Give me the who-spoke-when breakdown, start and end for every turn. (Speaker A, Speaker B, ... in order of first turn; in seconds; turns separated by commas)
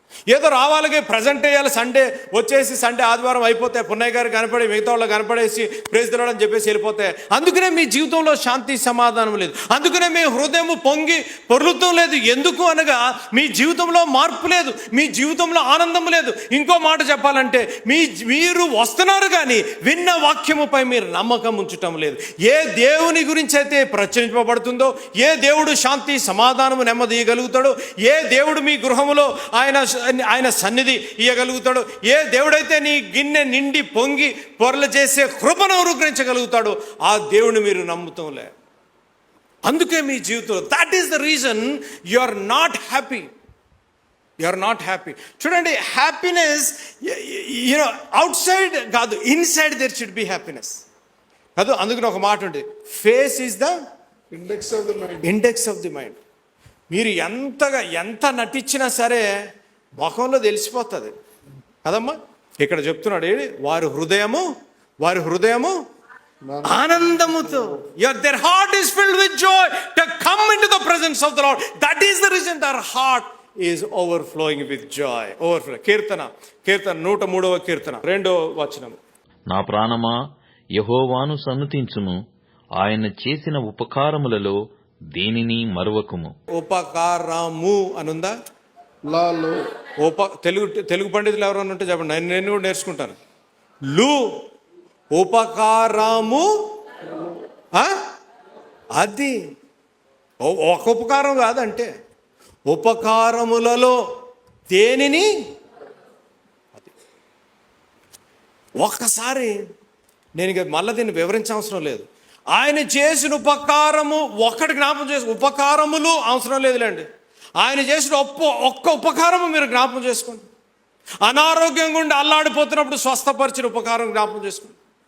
Speaker A: 0.3-38.5, Speaker A: 39.7-43.3, Speaker A: 44.4-50.8, Speaker A: 51.6-53.7, Speaker B: 54.3-55.2, Speaker A: 55.2-56.2, Speaker A: 56.9-59.3, Speaker A: 60.0-61.1, Speaker A: 61.9-64.5, Speaker A: 65.0-65.8, Speaker B: 66.5-67.8, Speaker A: 66.7-79.0, Speaker C: 79.5-80.2, Speaker C: 80.8-82.2, Speaker C: 82.8-84.6, Speaker C: 85.1-86.3, Speaker A: 86.6-88.3, Speaker B: 89.1-89.6, Speaker A: 90.0-93.2, Speaker A: 93.9-94.2, Speaker A: 95.1-96.5, Speaker A: 99.0-99.3, Speaker A: 100.4-101.9, Speaker A: 102.7-104.0, Speaker A: 104.7-105.3, Speaker A: 108.8-109.6, Speaker A: 110.4-117.1, Speaker A: 117.6-120.4, Speaker A: 121.2-124.8